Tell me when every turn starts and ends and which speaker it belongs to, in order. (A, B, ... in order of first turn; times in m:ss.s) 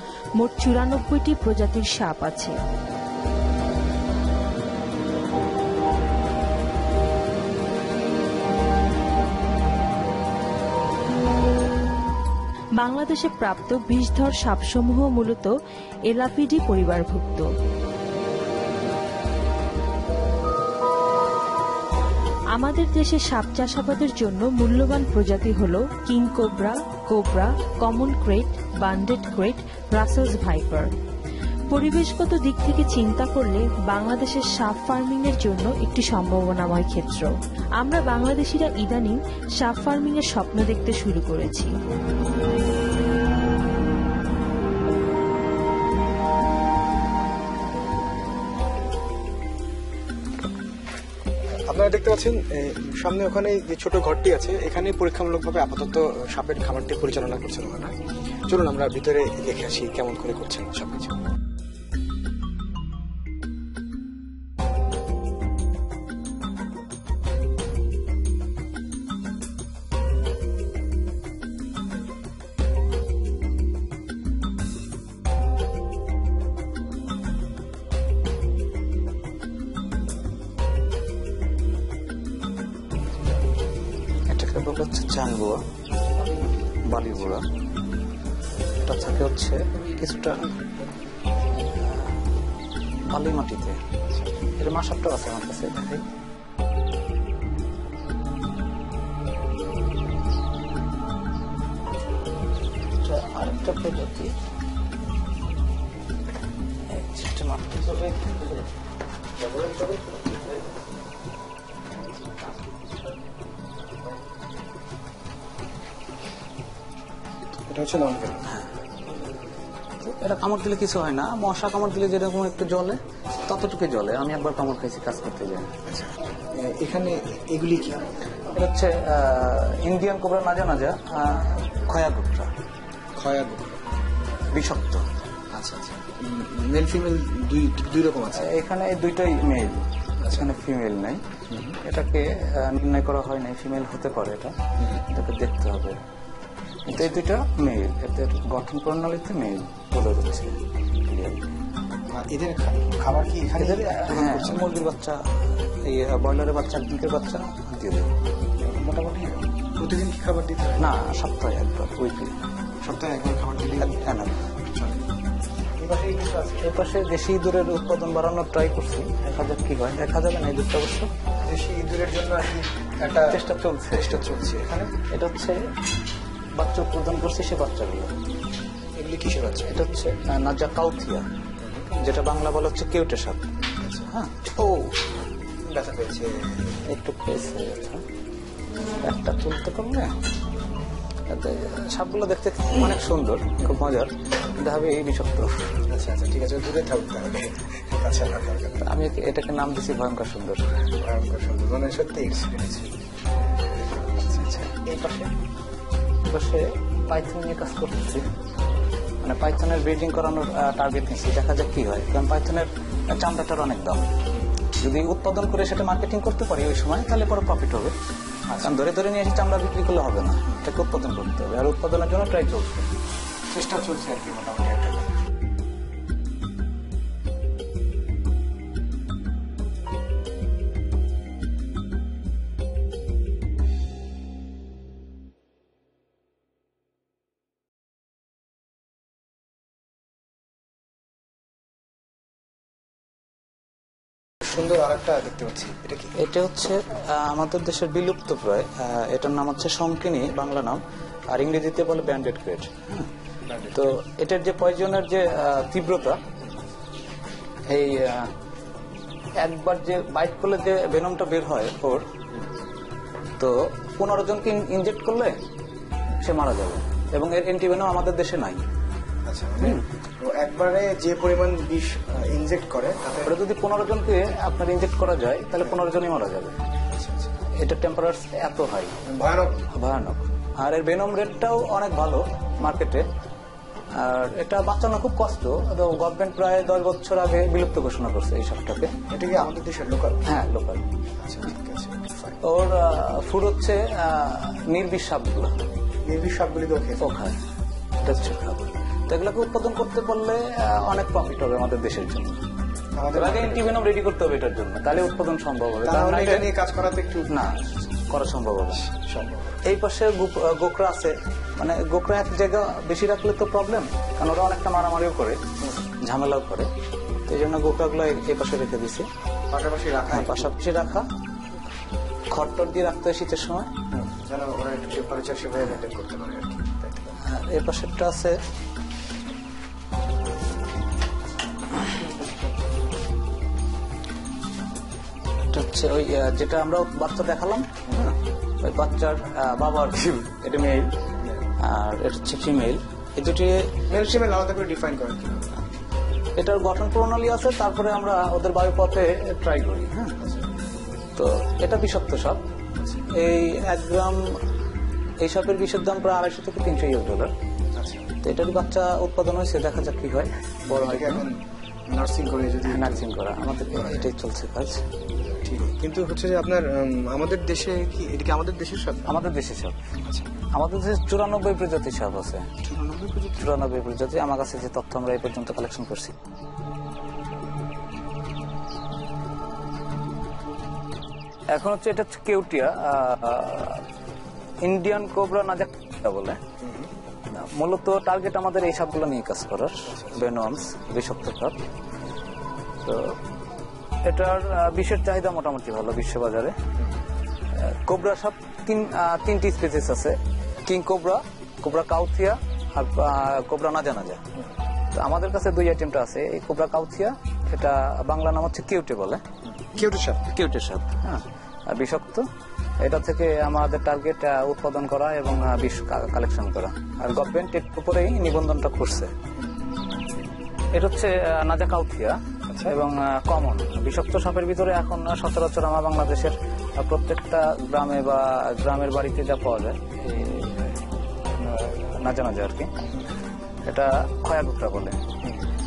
0:00.4-0:02.6 A
0:12.8-0:15.5 A
0:16.1-0:17.5 A
0:22.6-0:30.9 A
0:31.7-0:41.7 A
0:51.7-0:57.9 B
0:58.5-1:01.2 B
1:24.3-1:25.6 C
1:26.9-1:27.4 C
1:28.8-1:30.5 C
1:31.5-1:32.2 C
1:33.1-1:33.8 C
1:34.6-1:36.0 C
1:43.0-1:44.3 C
1:46.9-1:48.7 C
1:49.4-1:50.4 C
1:57.7-1:58.4 B
1:58.5-1:58.7 C
2:00.0-2:05.7 C
2:05.9-2:08.1 B
2:08.5-2:12.5 C
2:13.2-2:13.9 B
2:14.5-2:15.1 C
2:15.5-2:18.5 B
2:18.3-2:21.2 C
2:20.2-2:20.5 B
2:21.5-2:21.8 B
2:21.8-2:24.6 C
2:24.8-2:25.1 B
2:25.1-2:26.0 C
2:26.9-2:31.5 C
2:32.1-2:34.7 B
2:33.6-2:38.1 C
2:38.6-2:40.9 B
2:40.8-2:42.4 C
2:42.8-2:44.0 B
2:43.8-2:44.5 C
2:44.6-2:45.0 B
2:45.8-2:46.7 B
2:46.6-2:51.1 C
2:51.4-2:53.4 B
2:53.3-2:54.3 C
2:54.0-2:55.0 B
2:55.1-2:55.6 C
2:56.6-2:58.1 C
2:59.0-2:59.8 B
2:59.7-3:01.2 C
3:01.6-3:02.0 B
3:02.0-3:03.4 C
3:03.8-3:04.1 B
3:04.1-3:05.0 C
3:05.6-3:06.8 B
3:06.8-3:08.0 C
3:09.0-3:10.1 C
3:11.3-3:15.8 C
3:15.9-3:18.8 B
3:18.8-3:20.7 C
3:21.0-3:22.9 B
3:23.9-3:24.2 B
3:24.3-3:25.3 C
3:26.3-3:28.2 C
3:29.2-3:34.1 C
3:34.8-3:37.9 C
3:38.5-3:38.8 B
3:38.6-3:42.9 C
3:43.5-3:45.1 B
4:04.4-4:06.2 B
4:06.2-4:13.1 C
4:13.4-4:13.8 B
4:13.7-4:16.2 C
4:17.7-4:18.3 C
4:19.4-4:22.1 C
4:23.4-4:25.4 C
4:26.2-4:28.6 C
4:29.2-4:33.4 B
4:29.6-4:29.9 C
4:33.2-4:36.6 C
4:36.9-4:37.3 B
4:37.6-4:38.9 C
4:39.1-4:39.6 B
4:39.7-4:43.1 C
4:44.0-4:48.9 C
4:49.1-4:50.2 B
4:50.3-4:50.8 C
4:51.2-4:52.4 B
4:52.4-4:55.5 C
4:56.0-4:57.1 B
4:57.0-4:57.4 C
4:58.0-5:02.4 C
5:02.9-5:03.7 B
5:03.1-5:06.5 C
5:05.8-5:07.3 B
5:07.3-5:08.9 C
5:08.9-5:09.6 B
5:09.6-5:15.4 C
5:16.0-5:16.7 C
5:17.3-5:19.1 C
5:19.5-5:20.5 B
5:20.1-5:21.1 C
5:22.3-5:23.7 C
5:23.9-5:27.2 B
5:27.2-5:28.4 C
5:32.2-5:32.5 B
5:35.4-5:37.9 C
5:38.6-5:40.9 C
5:41.6-5:44.2 C
5:43.9-5:45.7 B
5:46.4-5:50.2 C
5:50.2-5:50.5 B
5:51.2-5:52.4 C
5:52.8-5:53.1 B
5:53.1-5:54.2 C
5:55.2-5:57.3 C
5:57.7-5:58.2 B
5:58.2-6:01.3 C
6:00.7-6:03.1 B
6:02.6-6:04.8 C
6:03.8-6:04.0 B
6:05.2-6:09.2 B
6:09.1-6:09.8 C
6:10.0-6:10.4 B
6:10.5-6:12.6 C
6:12.7-6:13.5 B
6:13.4-6:16.1 C
6:21.5-6:23.8 C
6:24.6-6:26.4 C
6:26.6-6:26.9 B
6:27.3-6:31.6 C
6:29.9-6:30.2 B
6:32.8-6:33.2 C
6:34.0-6:36.6 C
6:37.6-6:44.2 C
6:44.9-6:49.2 C
6:49.5-6:50.3 B
6:50.3-6:52.3 C
6:52.8-6:59.1 C
7:00.7-7:10.8 C
7:02.5-7:02.8 B
7:11.4-7:12.7 C
7:13.6-7:15.0 C